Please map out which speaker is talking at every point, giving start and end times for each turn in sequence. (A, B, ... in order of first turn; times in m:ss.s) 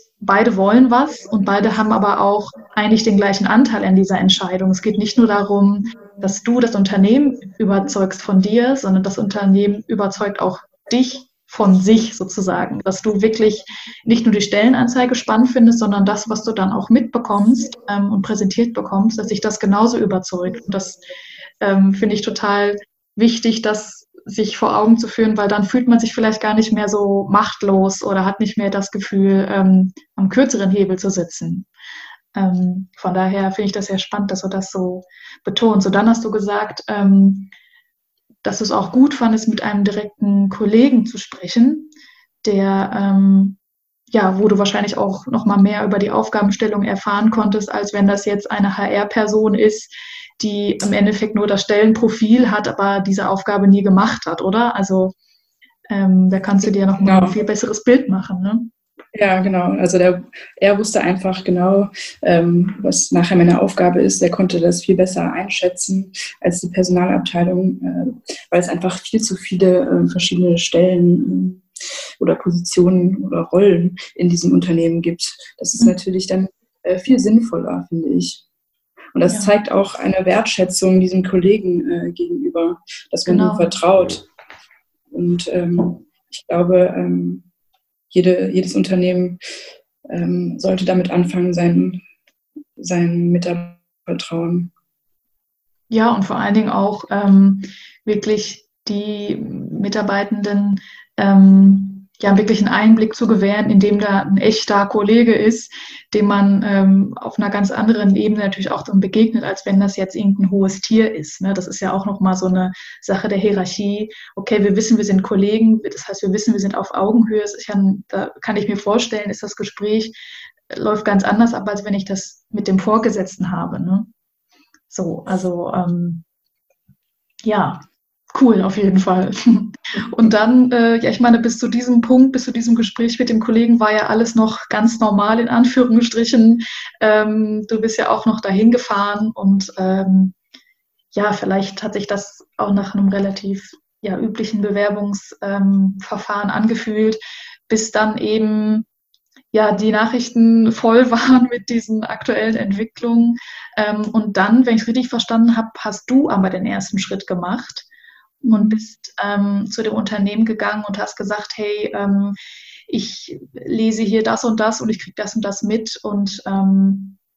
0:00.2-0:21.0 A
0:21.6-0:31.7 A
0:32.4-0:37.5 A
0:38.4-0:41.9 A
0:42.4-0:43.6 A
0:44.1-0:55.2 A
0:55.9-0:58.7 A
0:57.0-0:57.4 B
0:59.1-1:11.6 B
1:12.2-1:18.4 B
1:19.1-1:24.3 B
1:23.3-1:23.8 A
1:25.1-1:27.4 B
1:28.1-1:29.4 B
1:30.1-1:32.0 B
1:32.8-1:34.7 B
1:35.9-2:00.2 A
2:00.7-2:04.1 A
2:04.9-2:06.2 A
2:07.4-2:20.4 A
2:21.1-2:28.9 A
2:29.5-2:37.9 A
2:38.4-2:38.8 B
2:38.5-2:42.4 A
2:42.9-2:47.2 A